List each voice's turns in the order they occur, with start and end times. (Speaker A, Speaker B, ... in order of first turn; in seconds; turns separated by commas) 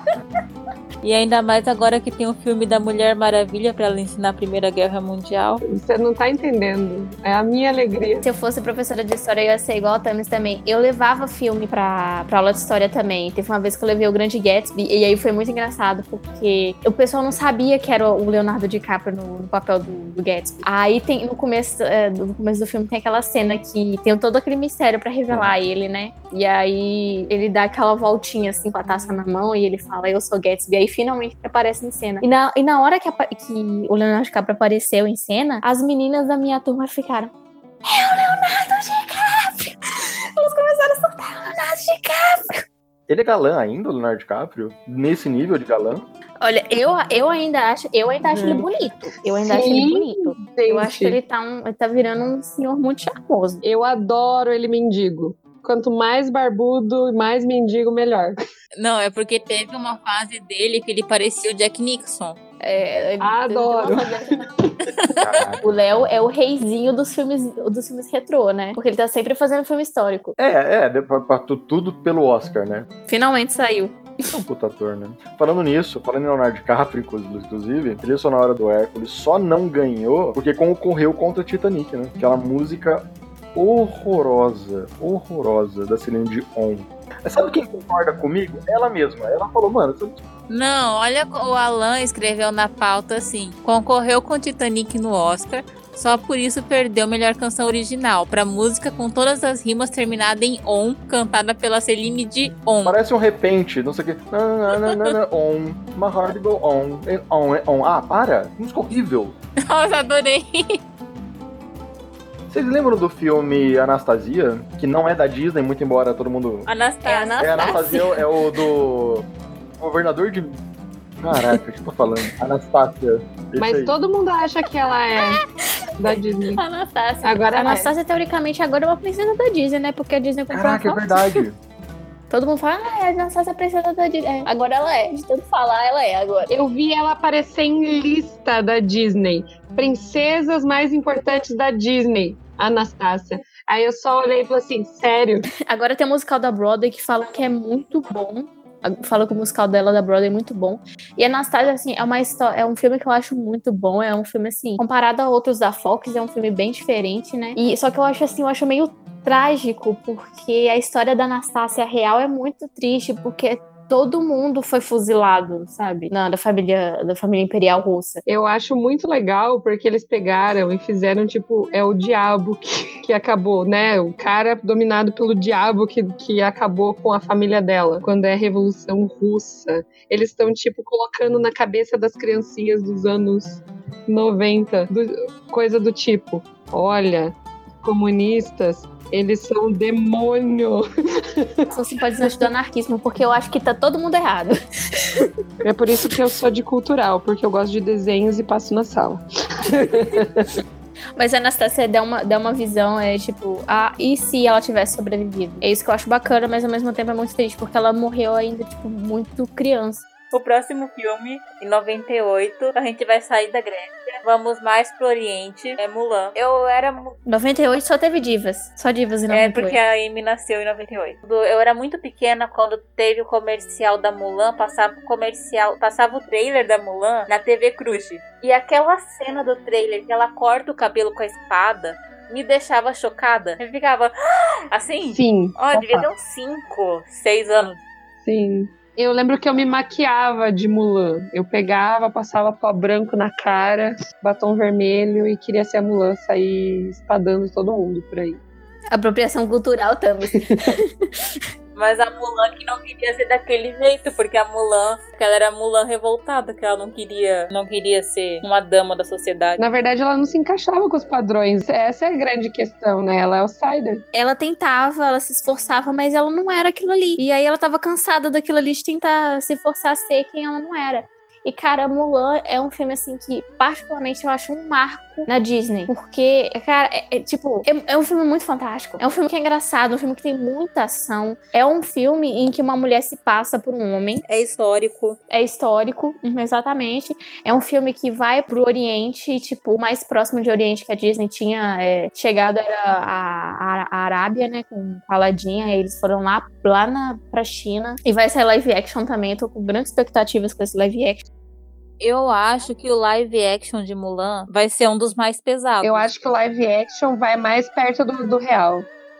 Speaker A: 1.0-5.6, Speaker B: 5.7-8.3, Speaker C: 8.2-37.3, Speaker C: 37.9-42.6, Speaker D: 43.1-46.0, Speaker C: 46.4-53.6, Speaker B: 48.2-51.2, Speaker B: 53.6-58.4, Speaker A: 58.8-62.4, Speaker C: 62.6-64.5, Speaker B: 63.2-65.0, Speaker D: 65.2-66.1, Speaker C: 65.6-70.4, Speaker D: 70.4-72.9, Speaker C: 73.1-74.0, Speaker D: 74.3-90.2, Speaker A: 90.5-103.0, Speaker D: 102.8-109.4, Speaker A: 109.7-110.8, Speaker D: 112.5-116.7, Speaker A: 116.7-117.8, Speaker C: 117.0-118.2, Speaker D: 117.4-119.3, Speaker D: 119.8-120.6, Speaker D: 121.2-124.0, Speaker B: 123.6-125.4, Speaker B: 126.0-126.6, Speaker C: 126.5-131.4, Speaker B: 127.2-127.9, Speaker D: 130.5-131.6, Speaker C: 132.3-136.5, Speaker B: 136.5-145.5, Speaker C: 145.7-168.2, Speaker B: 168.3-190.8, Speaker B: 191.4-191.7, Speaker C: 191.7-195.2, Speaker B: 195.6-200.4, Speaker C: 201.2-210.1, Speaker A: 210.3-217.2, Speaker C: 217.3-219.8, Speaker A: 219.3-234.1, Speaker A: 234.7-237.8, Speaker B: 235.1-236.1, Speaker B: 238.2-248.4, Speaker C: 248.9-250.9, Speaker A: 251.8-259.6, Speaker B: 259.6-264.0, Speaker C: 264.1-284.2, Speaker A: 284.3-285.2, Speaker C: 285.3-301.3, Speaker A: 302.0-306.1, Speaker B: 305.8-308.9